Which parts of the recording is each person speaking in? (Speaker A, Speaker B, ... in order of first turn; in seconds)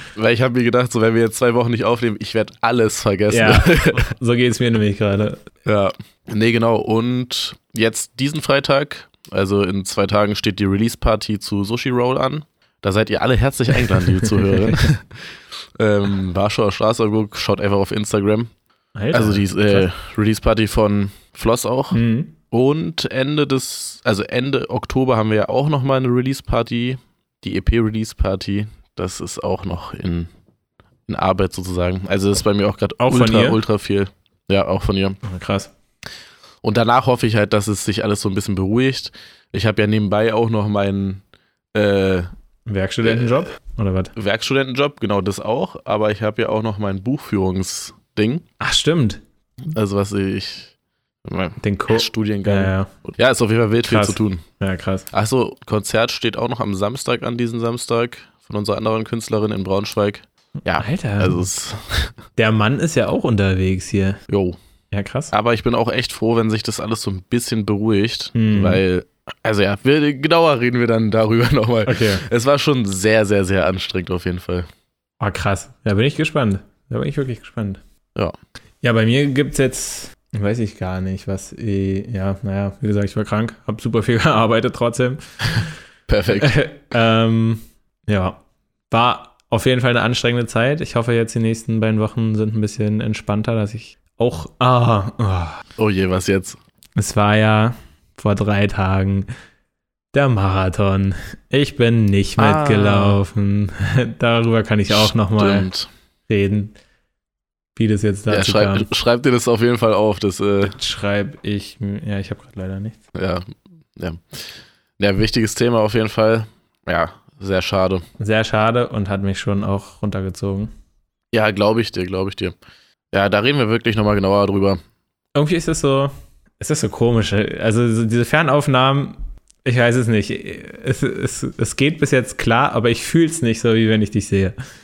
Speaker A: 0.2-4.1, 5.7-15.3, 15.8-18.5, 19.1-22.0, 22.5-30.3, 31.1-35.2, 36.6-41.2, 41.8-42.3, 43.0-43.5, 44.2-48.5, 49.7-50.7, 51.2-54.4, 55.1-62.1, 64.3-64.6, 65.3-74.7, 86.1-86.6, 95.8-96.6, 102.4-103.2, 104.9-105.9, 108.3-110.8, 113.1-114.5, 115.0-118.0, 121.3-122.5, 123.1-124.8
Speaker B: 3.3-5.4, 14.1-14.8, 19.0-19.9, 21.9-22.3, 33.0-33.6, 35.2-35.7, 42.7-44.1, 48.6-49.2, 51.6-52.9, 53.9-55.1, 60.8-61.5, 62.4-64.2, 64.9-65.3, 68.3-68.8, 71.9-72.2, 75.2-77.8, 78.8-85.7, 86.3-88.4, 88.9-95.6, 97.0-99.3, 100.1-105.7, 106.3-106.8, 107.8-108.9, 110.6-113.0, 118.2-120.7, 125.3-134.6